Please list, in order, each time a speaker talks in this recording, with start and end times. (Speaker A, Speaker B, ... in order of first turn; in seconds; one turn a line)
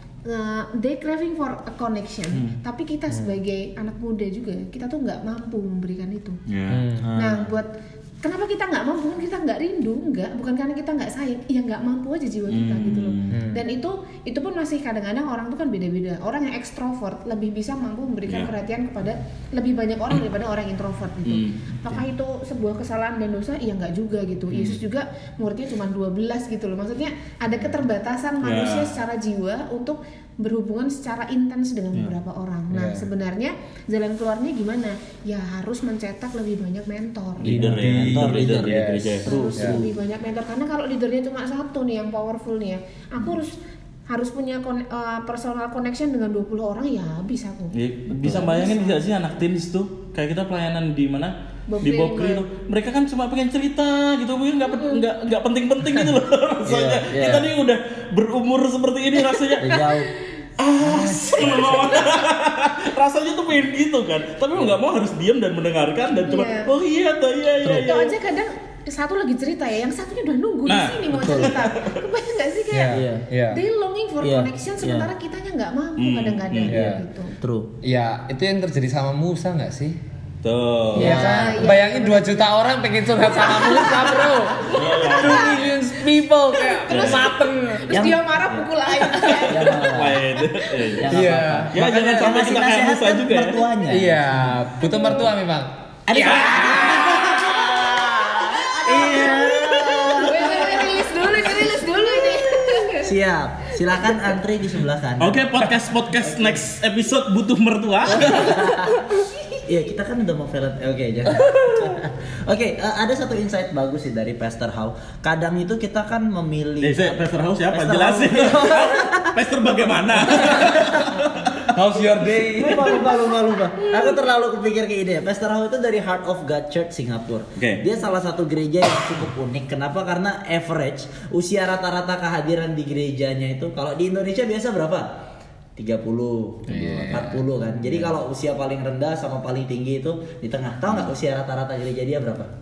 Speaker A: 0.2-6.4
Speaker B: 6.5-6.8
Speaker C: 6.7-7.1
Speaker D: 7.0-7.5
Speaker A: 7.1-7.7
Speaker A: 8.2-37.5
Speaker B: 12.5-13.4
Speaker C: 13.3-13.6
Speaker B: 18.3-18.5
Speaker B: 21.2-21.6
Speaker B: 28.4-28.9
Speaker C: 32.7-33.1
Speaker B: 37.4-39.9
Speaker D: 37.4-39.9
Speaker C: 37.5-39.8
Speaker A: 39.2-43.5
Speaker A: 44.1-49.0
Speaker B: 47.7-59.9
Speaker D: 48.1-48.6
Speaker A: 51.7-52.5
Speaker A: 54.6-55.0
Speaker D: 56.7-57.5
Speaker A: 59.2-60.4
Speaker D: 59.6-60.1
Speaker B: 60.6-68.2
Speaker D: 60.8-62.0
Speaker A: 61.3-62.3
Speaker A: 66.2-66.7
Speaker D: 67.6-67.9
Speaker A: 67.6-77.4
Speaker B: 70.7-72.0
Speaker C: 72.7-73.6
Speaker D: 72.9-73.2
Speaker D: 74.2-75.1
Speaker B: 76.0-76.8
Speaker C: 76.7-77.0
Speaker D: 77.4-77.7
Speaker C: 77.8-80.0
Speaker B: 80.4-81.5
Speaker A: 80.9-82.4
Speaker C: 81.0-88.0
Speaker A: 83.2-85.8
Speaker B: 84.7-85.7
Speaker A: 86.5-91.0
Speaker B: 86.9-87.3
Speaker D: 87.9-88.7
Speaker C: 89.0-89.5
Speaker D: 89.5-90.2
Speaker B: 89.5-91.2
Speaker D: 91.0-94.3
Speaker C: 91.1-92.3
Speaker B: 91.7-93.7
Speaker C: 93.9-97.2
Speaker A: 94.8-95.3
Speaker D: 96.1-101.9
Speaker B: 96.2-97.5
Speaker A: 98.8-103.2
Speaker D: 102.8-105.6
Speaker A: 103.8-104.4
Speaker B: 105.2-108.8
Speaker D: 106.2-106.6
Speaker D: 108.1-109.1
Speaker A: 109.2-109.6
Speaker D: 109.6-119.4
Speaker B: 111.4-111.9
Speaker B: 116.8-123.0
Speaker D: 120.1-121.3
Speaker C: 120.3-120.7
Speaker C: 121.8-122.7
Speaker D: 122.2-135.1
Speaker A: 123.8-124.1
Speaker B: 127.6-127.8
Speaker D: 135.8-142.5
Speaker C: 136.7-138.2